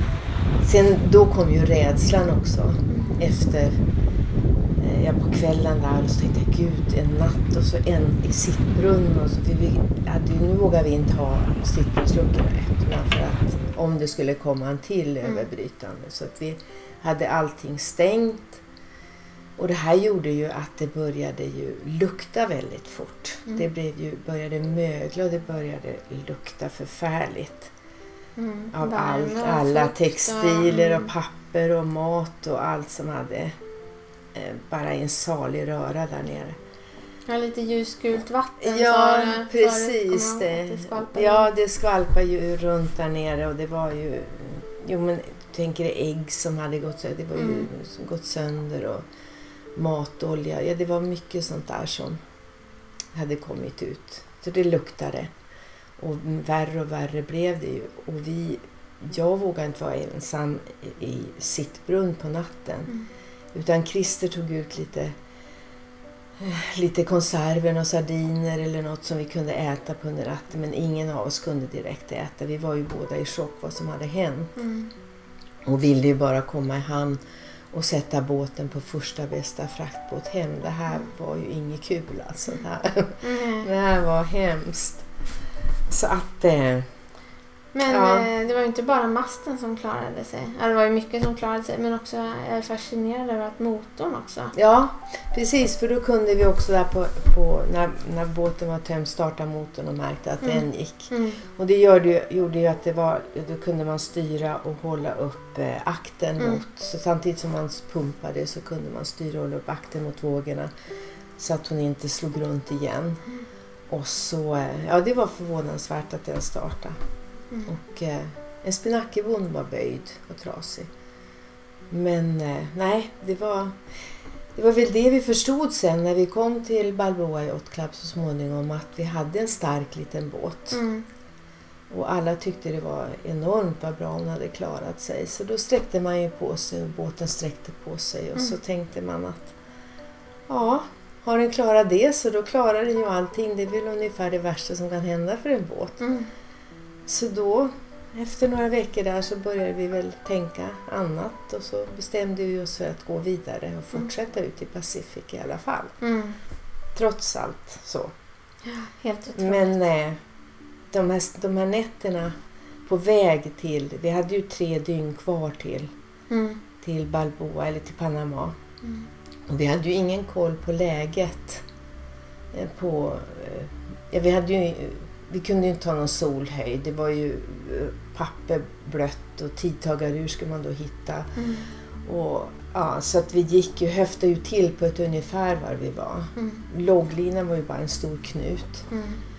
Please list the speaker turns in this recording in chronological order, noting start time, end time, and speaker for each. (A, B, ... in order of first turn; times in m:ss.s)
0:00.6-0:03.8 A
0:02.9-0:03.2 B
0:04.8-0:18.6 A
0:19.6-0:27.7 A
0:28.4-0:31.1 B
0:28.7-0:33.5 A
0:34.3-0:36.6 A
0:37.3-0:41.5 B
0:38.6-0:49.0 A
0:47.4-0:47.7 B
0:49.7-0:52.2 A
0:53.1-0:55.3 A
0:56.0-1:03.0 A
1:03.5-1:05.1 A
1:06.4-1:14.6 A
1:14.6-1:14.9 B
1:15.6-1:17.2 A
1:17.7-1:25.0 A
1:23.2-1:23.7 B
1:25.9-1:26.9 A
1:27.7-1:34.5 B
1:27.9-1:28.3 A
1:34.5-1:50.7 A
1:40.4-1:41.4 B
1:51.4-1:53.2 A
1:53.9-1:56.9 A
1:57.6-2:00.9 A
2:01.9-2:03.8 A
2:04.6-2:10.8 A
2:10.7-2:11.1 B
2:11.9-2:19.5 A
2:20.5-2:26.0 A
2:26.0-2:26.3 B
2:27.1-2:35.9 A
2:36.0-2:36.4 B
2:36.9-2:38.1 A
2:38.6-2:39.8 B
2:39.4-2:40.2 A
2:40.9-2:42.3 A
2:42.8-2:45.9 A
2:46.3-2:46.6 B
2:46.8-2:48.6 A
2:49.5-2:51.6 A
2:52.5-3:01.4 A
3:01.4-3:01.7 B
3:02.0-3:08.9 A
3:06.4-3:06.6 B
3:08.9-3:09.2 B